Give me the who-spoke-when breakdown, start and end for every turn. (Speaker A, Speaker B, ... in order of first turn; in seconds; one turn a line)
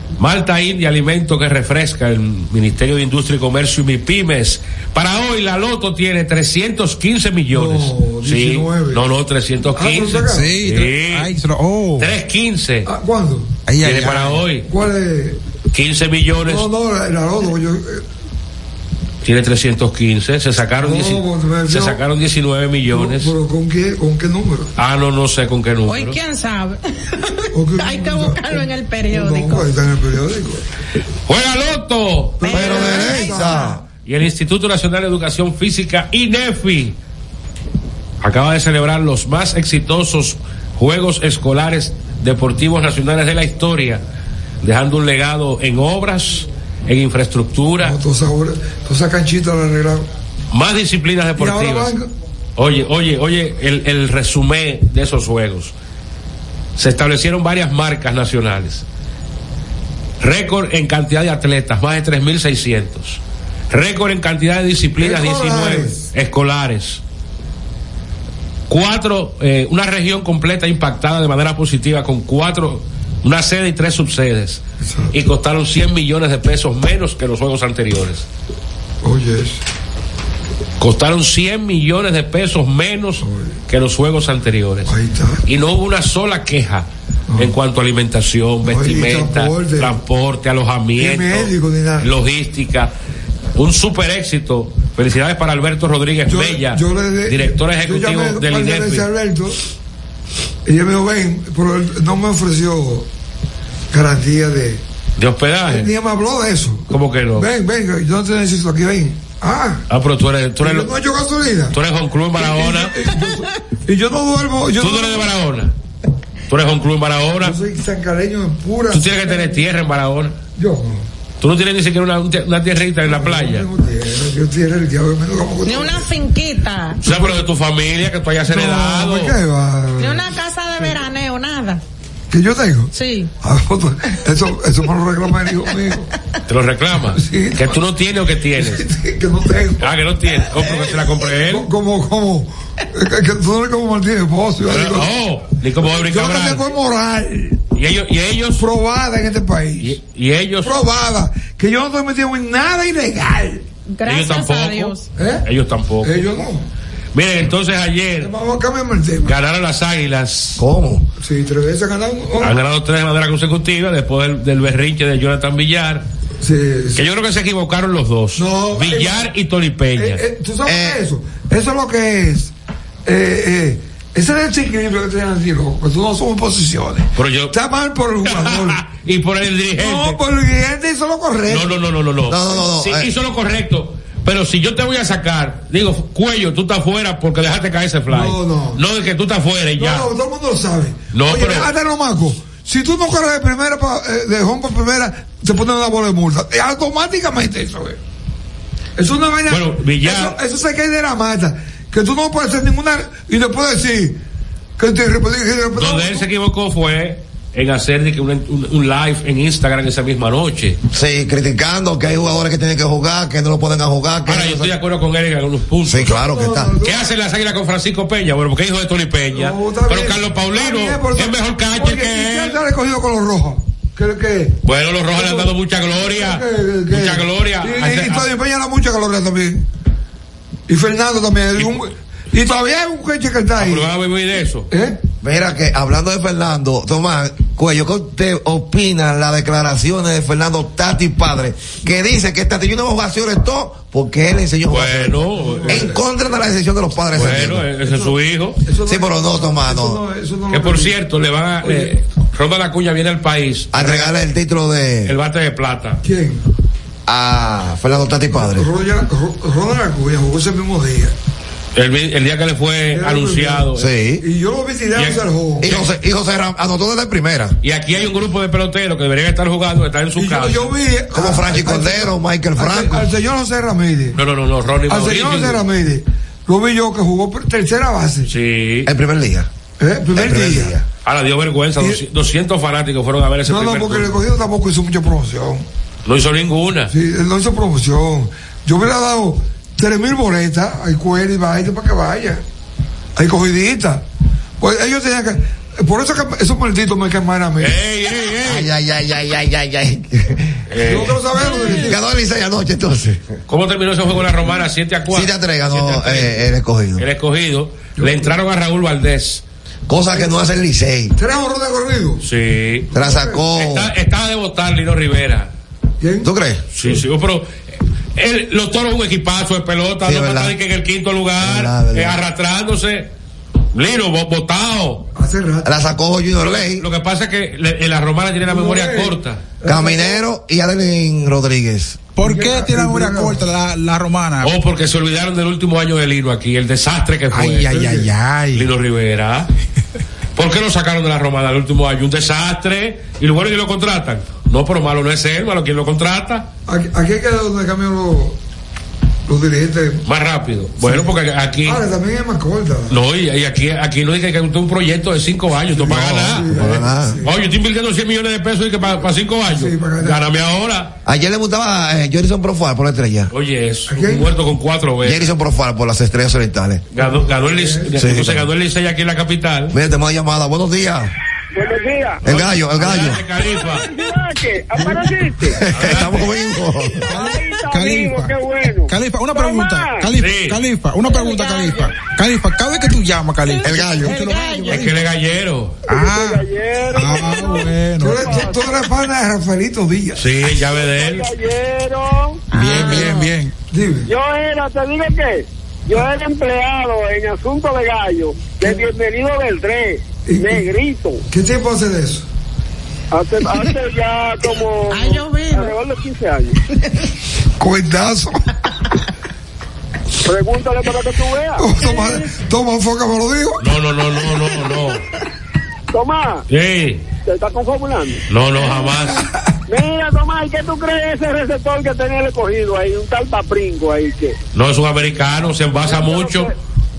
Speaker A: 0.2-11.3
Speaker B: 7.5-9.0
Speaker B: 9.7-10.5
Speaker C: 10.3-12.1
Speaker A: 12.0-12.9
Speaker B: 12.9-13.5
Speaker C: 13.7-14.4
Speaker A: 13.8-14.7
Speaker B: 14.7-15.4
Speaker A: 15.7-16.7
Speaker B: 16.4-18.0
Speaker A: 19.2-23.3
Speaker B: 20.8-22.0
Speaker B: 22.9-24.7
Speaker A: 24.8-26.2
Speaker D: 25.9-29.6
Speaker B: 27.5-30.6
Speaker A: 31.3-32.6
Speaker B: 32.4-33.8
Speaker D: 32.4-33.7
Speaker E: 32.5-33.8
Speaker A: 34.0-37.0
Speaker A: 38.2-44.0
Speaker A: 44.6-48.0
Speaker B: 47.8-50.1
Speaker A: 50.5-51.9
Speaker B: 51.4-52.1
Speaker A: 52.5-55.7
Speaker A: 56.8-58.8
Speaker A: 60.2-67.0
Speaker B: 65.0-66.0
Speaker A: 68.7-78.3
Speaker B: 74.8-75.1
Speaker B: 79.0-79.6
Speaker A: 80.8-84.9
Speaker B: 83.2-83.5
Speaker B: 84.9-85.4
Speaker A: 85.5-92.9
Speaker B: 87.3-87.5
Speaker B: 88.6-90.0
Speaker B: 91.0-92.1
Speaker A: 93.5-99.1
Speaker B: 96.3-99.6
Speaker B: 100.6-103.1
Speaker B: 103.9-104.8
Speaker A: 105.2-105.9
Speaker B: 105.7-109.8
Speaker A: 106.9-107.5
Speaker A: 109.9-110.9
Speaker B: 110.6-111.8
Speaker A: 111.7-113.0
Speaker B: 112.3-115.3
Speaker A: 114.8-115.7
Speaker A: 116.5-117.6
Speaker B: 117.4-119.5
Speaker A: 118.9-120.4
Speaker B: 120.5-121.0
Speaker A: 121.4-123.7
Speaker B: 123.0-126.1
Speaker D: 125.6-127.0
Speaker A: 127.0-129.4
Speaker B: 127.0-127.4
Speaker B: 128.5-130.9
Speaker D: 130.0-131.8
Speaker B: 132.3-136.1
Speaker D: 132.9-133.3
Speaker A: 136.5-138.8
Speaker B: 137.1-137.8
Speaker B: 138.6-139.9
Speaker A: 139.8-141.7
Speaker B: 140.5-145.1
Speaker A: 144.6-146.7
Speaker B: 145.8-147.6
Speaker A: 147.7-148.6
Speaker B: 148.6-150.0
Speaker A: 149.8-150.8
Speaker B: 150.6-153.6
Speaker D: 153.9-155.1
Speaker A: 154.1-156.3
Speaker B: 155.2-155.5
Speaker B: 156.0-156.7
Speaker A: 157.1-158.3
Speaker B: 158.2-159.3
Speaker A: 159.2-160.6
Speaker E: 160.6-161.1
Speaker B: 161.2-162.6
Speaker A: 162.4-166.1
Speaker B: 166.4-167.0
Speaker A: 166.9-170.2
Speaker B: 168.4-169.3
Speaker B: 169.9-172.5
Speaker E: 170.6-171.0
Speaker B: 173.1-178.8
Speaker A: 177.2-177.6
Speaker A: 178.2-180.2
Speaker B: 179.8-181.7
Speaker A: 181.5-190.1
Speaker E: 182.3-183.1
Speaker B: 188.1-188.8
Speaker B: 189.8-198.0
Speaker A: 191.1-191.7
Speaker B: 199.0-204.2
Speaker A: 199.5-200.4
Speaker B: 204.8-206.3
Speaker A: 205.8-210.8
Speaker E: 210.9-214.7
Speaker A: 214.3-216.2
Speaker E: 215.8-216.7
Speaker B: 216.1-217.1
Speaker A: 216.8-222.6
Speaker B: 219.3-224.6
Speaker A: 224.6-228.3
Speaker B: 225.1-229.7
Speaker B: 230.7-233.9
Speaker A: 233.6-234.7
Speaker B: 234.7-235.0
Speaker E: 235.2-247.7
Speaker A: 244.7-245.9
Speaker B: 245.4-246.0
Speaker A: 247.1-248.6
Speaker B: 247.8-250.9
Speaker E: 248.8-250.0
Speaker A: 250.5-254.2
Speaker B: 251.6-251.9
Speaker E: 253.7-255.2
Speaker A: 255.1-256.0
Speaker B: 256.0-256.4
Speaker E: 257.1-258.7
Speaker B: 258.3-261.1
Speaker A: 261.7-263.9
Speaker B: 262.9-263.7
Speaker E: 263.7-264.2
Speaker B: 264.2-265.8
Speaker A: 264.9-265.9
Speaker E: 265.6-267.6
Speaker A: 267.6-270.7
Speaker B: 270.1-274.2
Speaker E: 271.1-273.1
Speaker A: 274.1-275.6
Speaker B: 274.9-278.3
Speaker A: 278.3-278.9
Speaker E: 278.8-279.5
Speaker B: 279.8-280.7
Speaker E: 280.1-280.8
Speaker A: 281.0-284.2
Speaker B: 283.4-285.6
Speaker A: 286.1-286.9
Speaker B: 286.9-292.4
Speaker B: 293.1-294.0
Speaker B: 294.6-297.8
Speaker A: 297.6-298.7
Speaker E: 298.4-300.6
Speaker A: 300.7-301.6
Speaker B: 300.8-302.0
Speaker E: 301.7-303.3
Speaker A: 303.5-309.4
Speaker E: 305.1-307.1
Speaker B: 308.0-308.3
Speaker E: 309.9-311.2
Speaker B: 311.1-312.2
Speaker A: 312.2-312.9
Speaker B: 312.9-313.4
Speaker E: 312.9-313.9
Speaker A: 313.5-315.5
Speaker B: 316.0-316.3
Speaker E: 316.2-316.6
Speaker A: 316.7-317.5
Speaker A: 318.1-323.1
Speaker E: 320.0-320.6
Speaker E: 321.4-322.2
Speaker A: 323.7-325.1
Speaker B: 325.1-325.7
Speaker E: 325.6-326.9
Speaker A: 326.4-329.4
Speaker B: 328.5-330.2
Speaker E: 329.6-332.0
Speaker C: 332.1-334.5
Speaker B: 332.2-333.5
Speaker A: 334.4-337.9
Speaker C: 337.3-338.7
Speaker B: 337.7-338.1
Speaker A: 338.5-339.5
Speaker A: 340.3-346.5
Speaker B: 346.6-348.4
Speaker B: 349.3-350.0
Speaker A: 350.1-351.8
Speaker B: 350.8-353.0
Speaker A: 352.9-360.9
Speaker B: 355.7-357.3
Speaker E: 355.8-357.2
Speaker B: 359.4-360.2
Speaker E: 361.1-363.3
Speaker A: 363.3-365.3
Speaker B: 363.9-364.3
Speaker E: 365.0-366.8
Speaker A: 366.9-369.8
Speaker B: 367.0-367.9
Speaker E: 367.9-368.5
Speaker E: 369.7-371.1
Speaker F: 371.5-372.2
Speaker E: 372.2-373.2
Speaker A: 372.2-373.9
Speaker F: 373.8-375.6
Speaker E: 375.4-377.1
Speaker A: 375.7-376.2
Speaker C: 377.1-385.1
Speaker F: 377.1-380.1
Speaker A: 380.1-380.6
Speaker D: 381.0-381.9
Speaker D: 383.5-384.9
Speaker E: 383.6-384.1
Speaker A: 384.7-385.8
Speaker C: 385.9-388.4
Speaker F: 385.9-388.7
Speaker B: 388.0-390.3
Speaker A: 390.2-391.3
Speaker F: 390.6-393.0
Speaker D: 392.5-393.3
Speaker C: 392.5-393.5
Speaker B: 393.7-394.1
Speaker F: 394.1-401.2
Speaker B: 400.3-400.7
Speaker B: 401.3-402.3
Speaker F: 403.1-406.6
Speaker D: 404.9-405.8
Speaker B: 407.6-408.4
Speaker F: 410.2-411.7
Speaker B: 411.6-413.6
Speaker D: 411.8-412.3
Speaker A: 413.6-415.0
Speaker F: 415.9-416.4
Speaker A: 416.5-417.1
Speaker F: 417.2-418.2
Speaker A: 418.3-419.3
Speaker F: 419.7-424.4
Speaker A: 424.5-426.5
Speaker F: 425.8-426.5